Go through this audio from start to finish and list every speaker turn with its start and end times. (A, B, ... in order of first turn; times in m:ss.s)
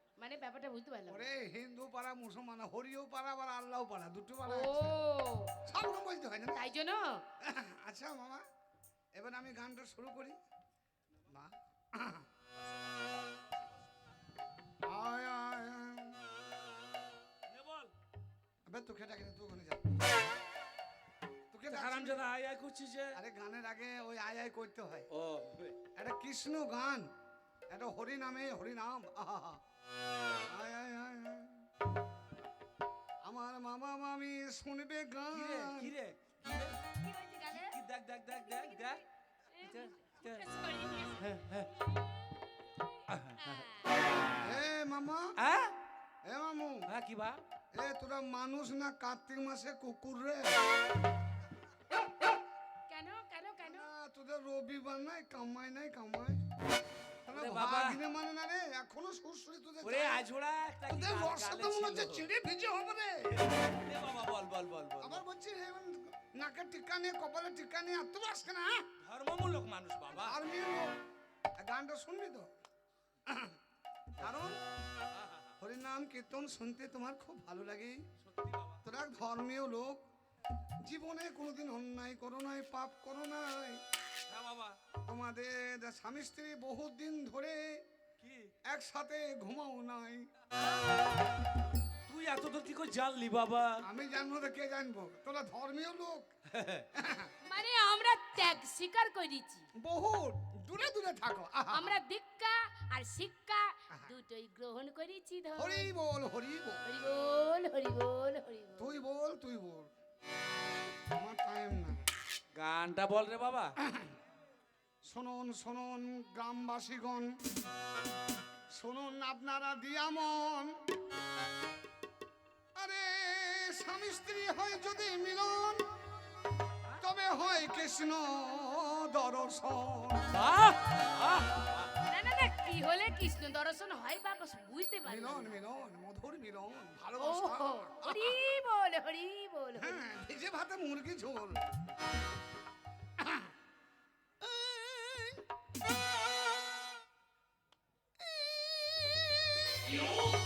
0:00.2-0:01.3 A
0:01.1-0:05.0 B
0:04.4-0:05.5 A
0:05.6-0:06.6 B
0:06.5-0:07.2 A
0:07.4-0:08.4 B
0:09.1-0:10.4 B
0:11.3-0:12.3 B
0:14.9-0:16.2 B
0:17.5-0:17.9 C
0:18.7-0:19.9 B
0:21.5-0:22.2 B
0:21.7-0:23.2 C
0:23.2-0:25.1 B
0:25.1-0:25.8 C
0:26.0-0:27.1 B
0:27.7-0:29.6 B
0:30.4-0:31.6 B
0:33.2-0:35.9 B
0:35.3-0:37.0 C
0:37.0-0:37.8 A
0:37.6-0:39.0 C
0:38.4-0:39.0 A
0:39.6-0:43.9 A
0:39.6-0:40.4 C
0:41.2-0:41.7 C
0:43.1-0:43.6 C
0:44.4-0:45.4 B
0:45.4-0:45.7 C
0:46.2-0:46.9 B
0:46.9-0:47.4 C
0:47.8-0:50.6 B
0:52.9-0:53.9 A
0:53.6-0:56.4 B
0:57.3-1:00.2 B
0:57.3-0:58.0 C
0:59.8-1:02.3 C
1:00.9-1:03.5 B
1:03.7-1:05.2 C
1:05.0-1:08.9 B
1:09.0-1:10.4 C
1:10.2-1:10.9 B
1:11.6-1:12.5 B
1:13.3-1:13.6 B
1:14.2-1:14.6 B
1:15.1-1:15.6 C
1:15.6-1:18.0 B
1:18.2-1:18.8 C
1:18.8-1:20.0 B
1:20.8-1:23.8 B
1:24.3-1:24.8 C
1:25.1-1:27.8 B
1:28.2-1:28.5 C
1:28.6-1:30.3 B
1:32.1-1:33.8 C
1:33.8-1:36.3 B
1:36.5-1:36.9 C
1:37.0-1:37.3 B
1:37.4-1:39.7 A
1:39.8-1:42.0 B
1:41.7-1:45.9 A
1:45.6-1:46.8 B
1:46.8-1:48.9 A
1:48.8-1:49.9 B
1:51.1-1:52.0 B
1:52.5-1:53.8 C
1:53.8-1:54.2 B
1:55.0-1:57.4 B
1:58.7-2:00.8 B
2:02.8-2:06.0 B
2:07.0-2:10.4 B
2:10.3-2:11.8 C
2:12.1-2:15.6 A
2:15.1-2:18.4 B
2:17.2-2:20.0 A
2:19.8-2:21.7 B
2:23.2-2:23.5 B
2:24.4-2:25.4 B
2:28.2-2:29.7 B